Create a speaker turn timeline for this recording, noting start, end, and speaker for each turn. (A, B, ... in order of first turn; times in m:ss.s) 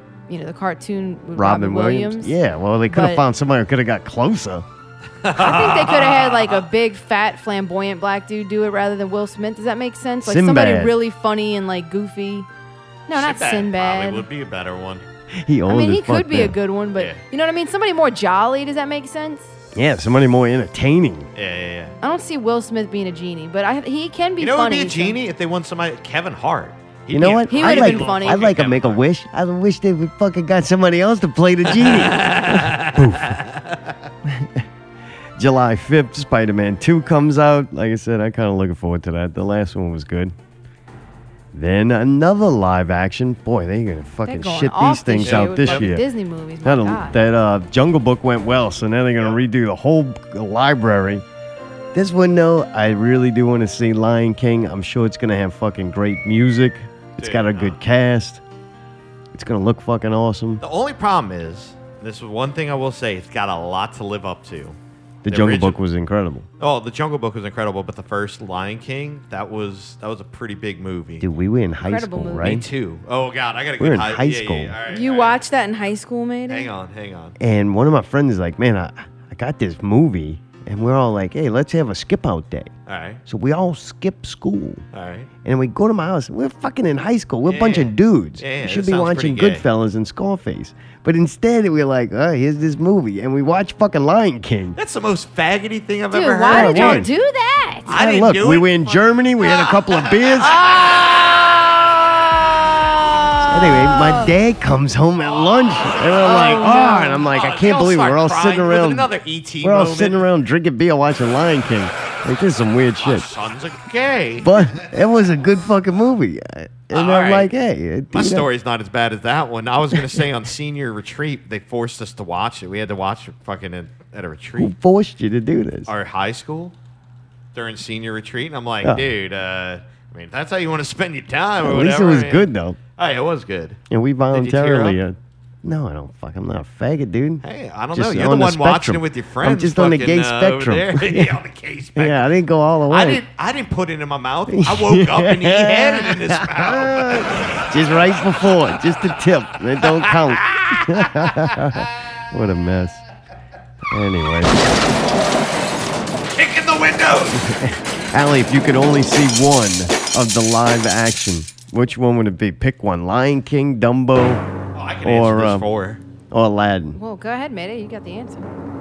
0:00.3-0:02.4 A
0:01.4-0:04.6 B
0:02.9-0:03.2 A
0:05.2-0:06.6 C
0:05.4-0:12.5 A
0:10.2-0:11.0 B
0:13.1-0:14.2 A
0:13.1-0:15.0 C
0:15.4-0:16.6 B
0:15.7-0:19.5 A
0:19.7-0:21.3 B
0:21.4-0:21.9 C
0:22.0-0:25.2 A
0:24.4-0:29.0 C
0:27.1-0:33.4 B
0:27.5-0:28.5 A
0:31.7-0:33.9 C
0:34.2-0:34.6 B
0:35.4-0:40.3 B
0:41.5-0:46.0 B
0:44.2-0:47.2 A
0:45.2-0:45.9 C
0:46.6-0:51.2 B
0:51.9-0:58.4 B
0:57.2-0:57.8 C
0:59.3-1:00.6 B
1:00.6-1:04.8 C
1:05.2-1:06.5 B
1:05.3-1:05.8 C
1:06.6-1:11.2 C
1:11.2-1:12.6 B
1:11.8-1:12.6 A
1:12.4-1:15.4 C
1:13.8-1:14.7 B
1:14.9-1:16.7 A
1:16.5-1:17.3 C
1:17.4-1:22.7 B
1:22.8-1:23.2 C
1:23.2-1:24.8 B
1:24.9-1:25.3 C
1:25.4-1:34.8 B
1:27.4-1:29.6 C
1:34.8-1:37.0 C
1:36.1-1:37.9 A
1:36.5-1:37.1 B
1:37.9-1:43.4 C
1:37.9-1:40.6 B
1:40.6-1:41.0 A
1:43.4-1:44.3 A
1:43.5-1:49.1 B
1:45.3-1:50.3 C
1:46.2-1:47.2 A
1:49.6-1:53.3 B
1:53.0-1:54.8 C
1:54.4-1:58.5 B
1:56.9-1:57.5 C
1:58.1-2:04.7 C
2:04.6-2:05.9 B
2:05.9-2:06.7 C
2:07.5-2:13.8 C
2:11.6-2:12.8 B
2:13.9-2:21.4 B
2:14.3-2:15.0 C
2:17.4-2:22.3 C
2:22.0-2:23.2 B
2:22.9-2:27.5 C
2:24.5-2:33.0 B
2:29.8-2:31.6 C
2:33.9-2:34.6 B
2:36.4-2:37.4 C
2:37.3-2:44.4 B
2:44.7-2:46.0 C
2:45.0-2:45.6 B
2:46.3-2:47.0 B
2:46.9-2:48.5 A